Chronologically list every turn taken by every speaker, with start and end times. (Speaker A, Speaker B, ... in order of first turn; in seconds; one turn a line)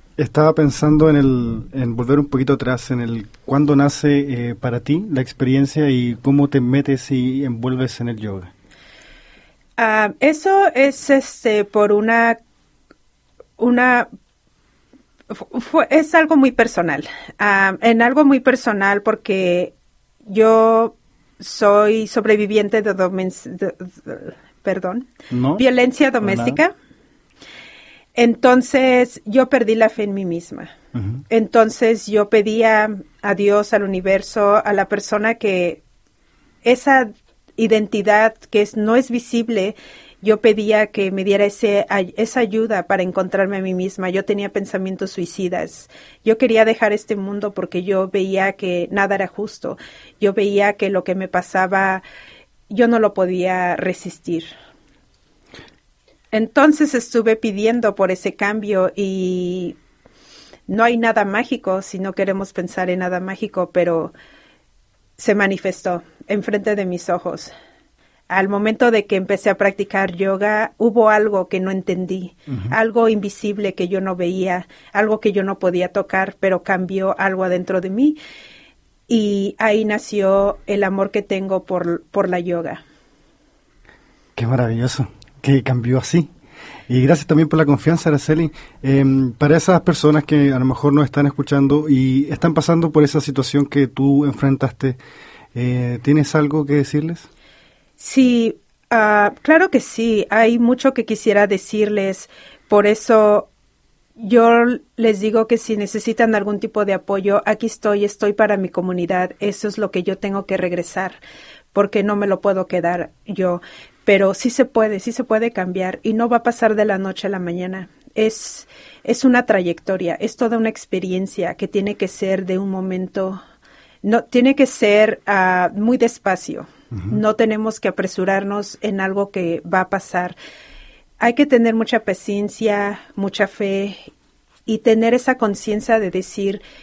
Speaker A: 0.2-8.5
Speaker B: 9.8-12.4
Speaker B: 13.6-14.1
Speaker B: 15.3-19.7
Speaker B: 20.3-26.7
Speaker A: 25.3-25.6
Speaker A: 26.2-26.6
Speaker B: 28.1-30.7
Speaker A: 30.9-31.2
Speaker B: 31.3-35.8
Speaker B: 36.6-52.0
Speaker B: 52.7-54.5
Speaker B: 56.3-59.8
Speaker B: 60.7-64.1
Speaker B: 65.2-67.5
Speaker B: 68.3-78.2
Speaker A: 72.5-72.7
Speaker B: 79.1-82.8
Speaker A: 84.4-86.3
Speaker A: 86.9-95.0
Speaker A: 95.5-97.3
Speaker B: 98.0-103.5
Speaker B: 104.2-111.2
Speaker B: 111.7-123.4
Speaker B: 124.0-130.4
Speaker B: 131.2-134.1
Speaker B: 134.7-136.6